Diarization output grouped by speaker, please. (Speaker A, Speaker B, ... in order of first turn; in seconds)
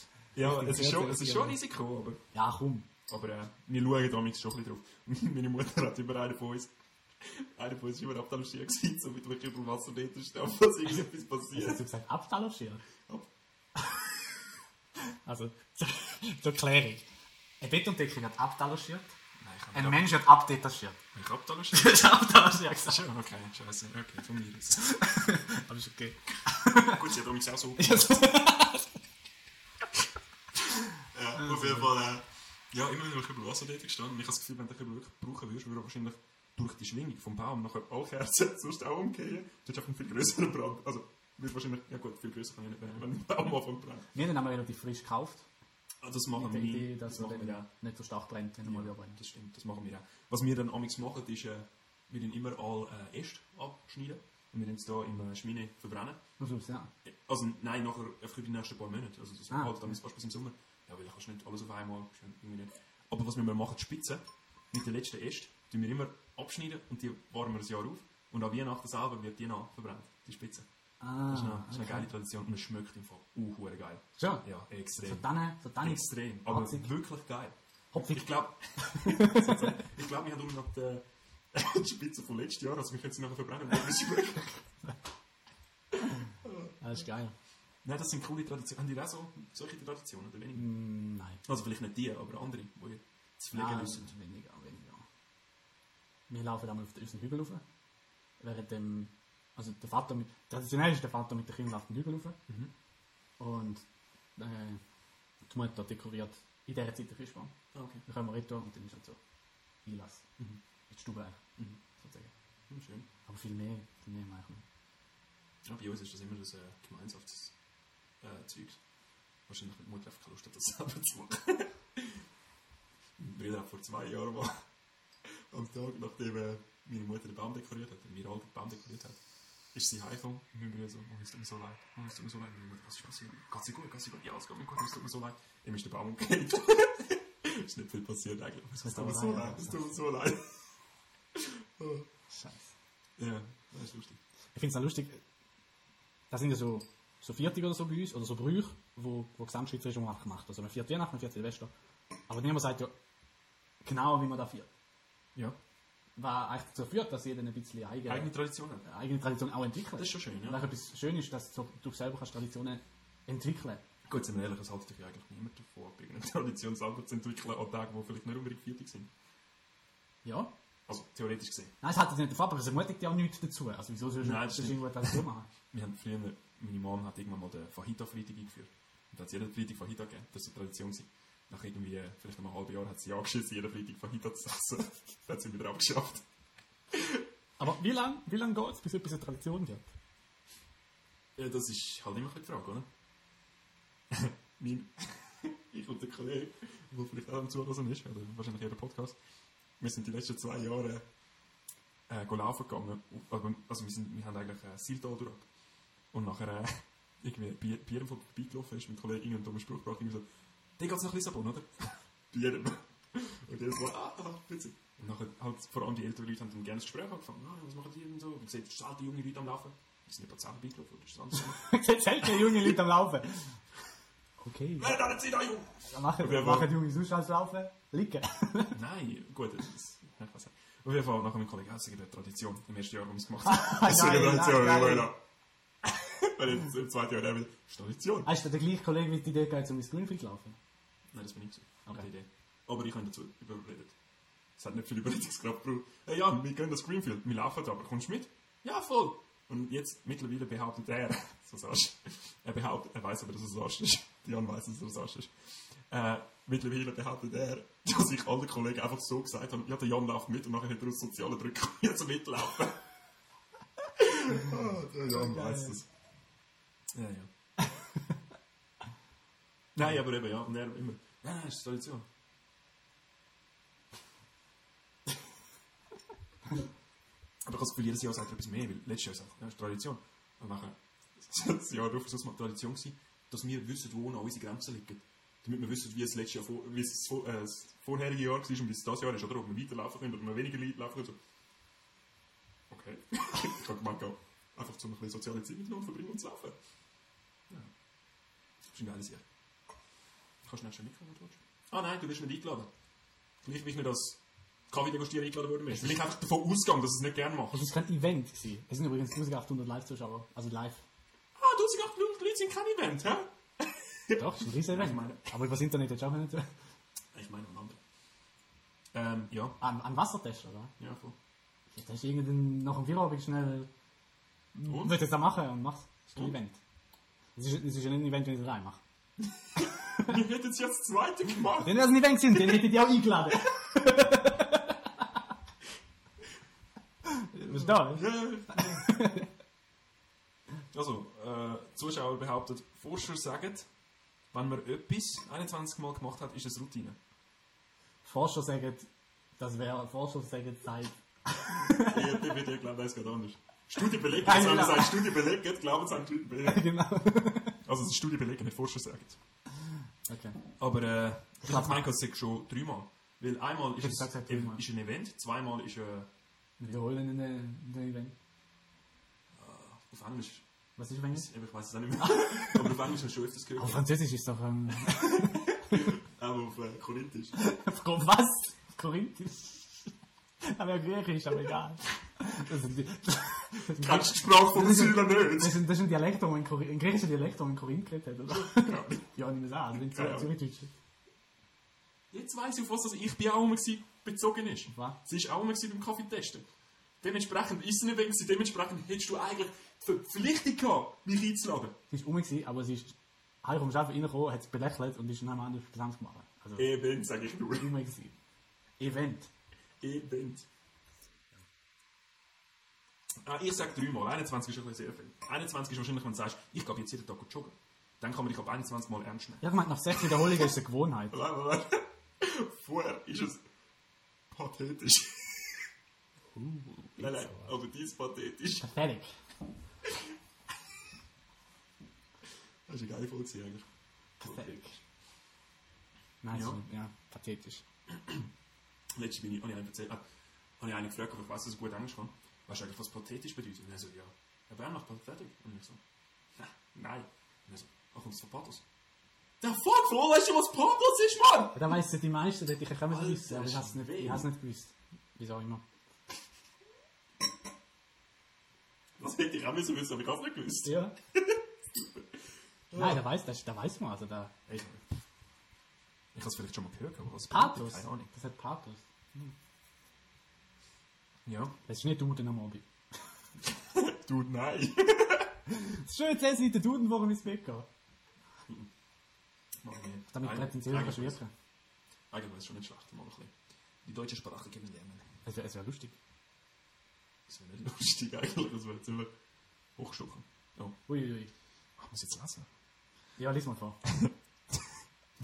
Speaker A: 0.3-2.2, 3.1-11.8, 19.4-20.1, 21.1-22.1, 22.7-24.9, 26.8-28.2, 30.8-44.1, 46.0-47.7, 48.6-56.2, 57.0-70.7, 71.3-75.2, 75.8-84.5, 86.4-86.7, 87.8-90.7, 91.4-94.1, 107.7-108.0, 112.7-113.1, 115.6-117.5, 118.2-118.8, 119.5-122.2, 123.2-124.5, 125.2-129.2, 129.7-140.7, 141.3-142.1, 143.2-144.2, 158.1-158.8, 159.9-160.6, 164.1-169.1, 170.9-171.7, 174.2-186.2, 186.9-187.2, 191.4-192.9, 194.1-199.2, 199.8-201.0, 202.1-205.5, 206.1-210.2, 210.8-221.6, 222.2-222.8, 224.8-226.7, 228.7-235.2, 235.8-238.3, 241.1-243.9, 244.6-262.8, 264.0-265.9, 266.9-267.3, 269.7-272.1, 277.4-291.2, 292.7-296.6, 298.6-299.2, 300.4-302.7, 303.4-307.7, 311.3-315.3, 317.1-317.8, 318.9-319.6, 320.8-321.1, 324.7-325.0, 329.2-332.6, 337.5-338.9, 340.7-343.7, 344.3-347.0, 351.5-356.6, 357.6-359.2, 360.6-366.1, 369.3-370.4, 371.1-373.9, 374.7-377.4, 383.7-385.6, 388.3-389.1, 389.7-390.3, 392.1-396.4, 397.0-401.7, 406.6-407.7, 409.8-410.5, 413.2-420.5, 421.1-423.4, 424.3-425.7, 427.0-428.7, 432.7-433.6, 434.2-434.6, 436.3-436.6, 437.9-438.3, 438.9-440.0, 440.6-445.8, 446.4-448.6, 449.4-451.8, 452.9-454.3, 459.0-462.1, 462.7-463.0, 464.5-464.8, 466.1-468.1, 471.2-471.5, 473.4-475.3, 479.6-481.2, 482.1-483.3, 483.8-485.0, 487.3-489.1, 489.8-490.8, 491.8-492.5, 493.8-494.7
Speaker B: 0.4-1.6, 2.3-2.9, 11.5-12.8, 15.2-17.0, 17.6-19.1, 19.7-21.0, 21.7-23.0, 24.8-27.0, 27.8-28.9, 31.4-31.9, 44.1-45.5, 46.3-49.2, 56.4-56.9, 59.5-60.0, 71.0-72.1, 74.2-74.4, 75.0-76.9, 77.9-78.2, 78.8-79.8, 86.8-87.3, 90.5-91.4, 93.5-95.0, 96.3-97.6, 98.4-102.4, 103.4-103.8, 104.4-104.8, 105.5-107.5, 108.0-109.2, 109.8-110.2, 110.9-112.3, 113.2-114.6, 138.8-139.9, 142.3-142.7, 144.5-145.2, 146.3-151.7, 152.3-152.9, 153.8-154.7, 156.2-158.3, 158.8-163.8, 170.2-170.5, 171.8-175.5, 187.6-189.9, 221.4-223.6, 224.4-225.0, 225.8-228.7, 233.4-235.1, 238.2-240.6, 265.1-265.8, 267.6-268.0, 307.5-310.8, 314.2-316.5, 319.6-320.7, 321.7-323.7, 324.5-326.6, 327.4-328.8, 331.6-334.8, 337.0-339.3, 348.0-348.9, 349.4-352.3, 354.2-355.1, 356.4-357.6, 360.1-360.4, 361.4-361.8, 363.8-364.6, 366.6-368.1, 370.8-371.3, 372.0-372.7, 373.6-375.9, 377.4-379.9, 380.4-390.7, 401.9-406.7, 407.5-408.1, 408.8-409.3, 419.4-421.1, 426.3-427.5, 428.6-429.1, 434.2-434.8, 436.2-437.6, 451.5-455.6, 460.6-460.9, 462.7-464.3, 467.3-469.3, 471.6-472.6, 475.5-477.7, 480.1-481.3, 485.2-485.9, 490.9-491.3, 493.2-493.8